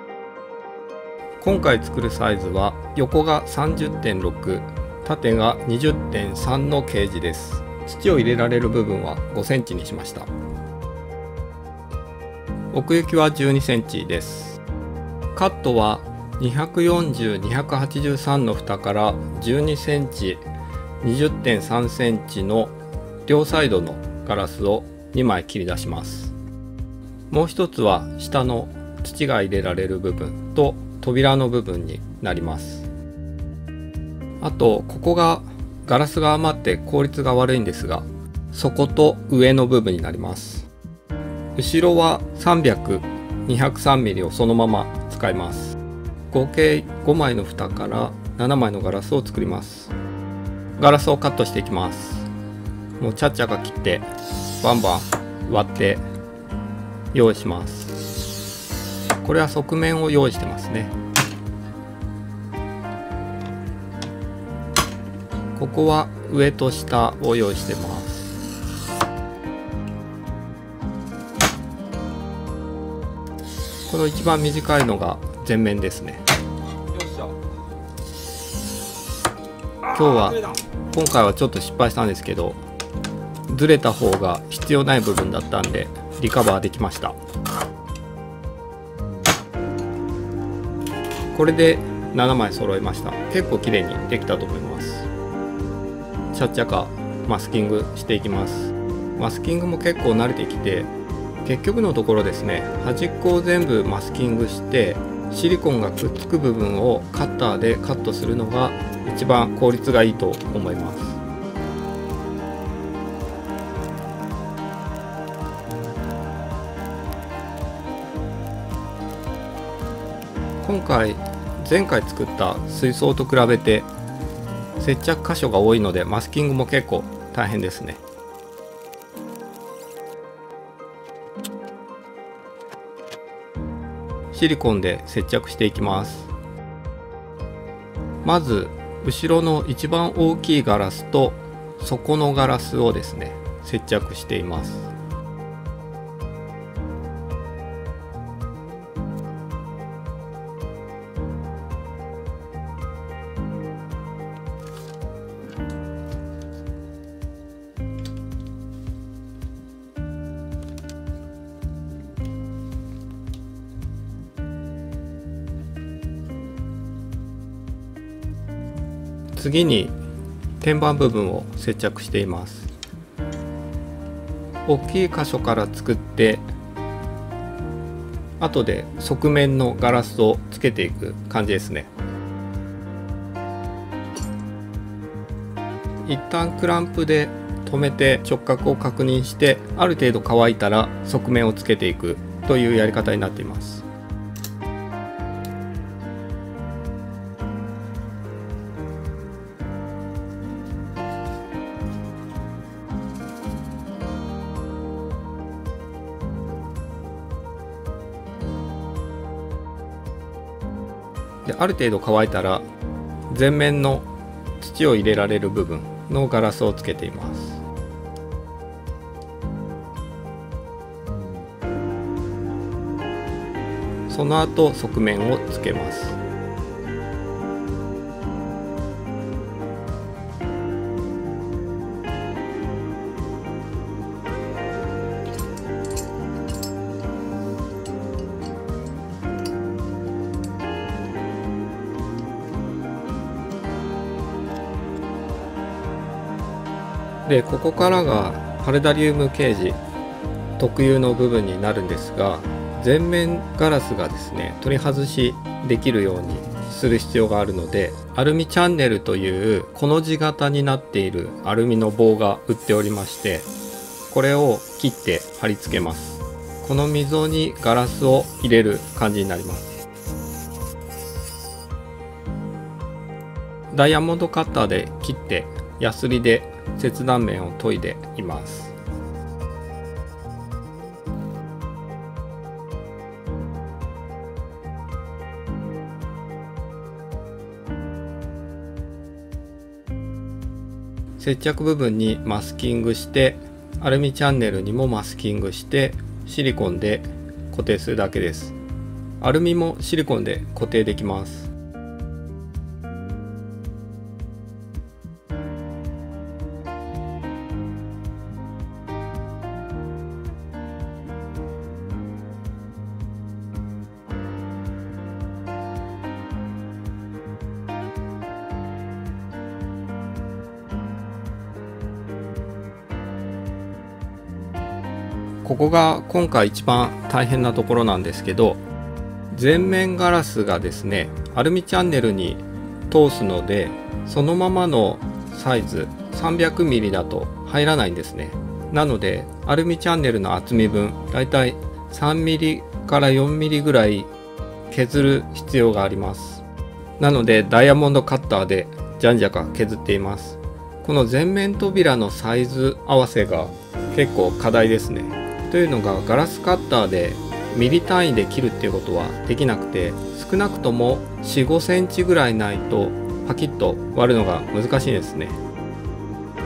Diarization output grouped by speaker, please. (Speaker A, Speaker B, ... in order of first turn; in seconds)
Speaker A: 1.4-10.3, 12.7-14.6, 15.3-20.4, 21.0-22.7, 23.3-26.3, 27.3-32.9, 34.4-40.7, 41.6-45.8, 46.3-49.9, 50.8-52.3, 53.0-54.1, 54.6-56.0, 57.1-58.0, 59.2-60.9, 65.6-68.3, 73.9-76.2, 79.9-82.6, 83.5-87.2, 91.3-95.1, 96.3-100.9, 101.4-111.2, 120.6-123.9, 124.8-128.0, 134.3-136.3, 138.2-144.9, 169.3-169.9, 170.6-172.7, 174.7-176.4, 178.4-181.9, 186.1-193.8, 211.4-212.6, 213.3-214.1, 214.6-217.6, 224.1-226.2, 247.3-249.8, 250.6-263.5, 264.1-269.7, 273.7-278.7, 291.2-298.6, 299.2-301.5, 325.4-328.6, 329.3-344.1, 344.7-346.4, 347.0-365.4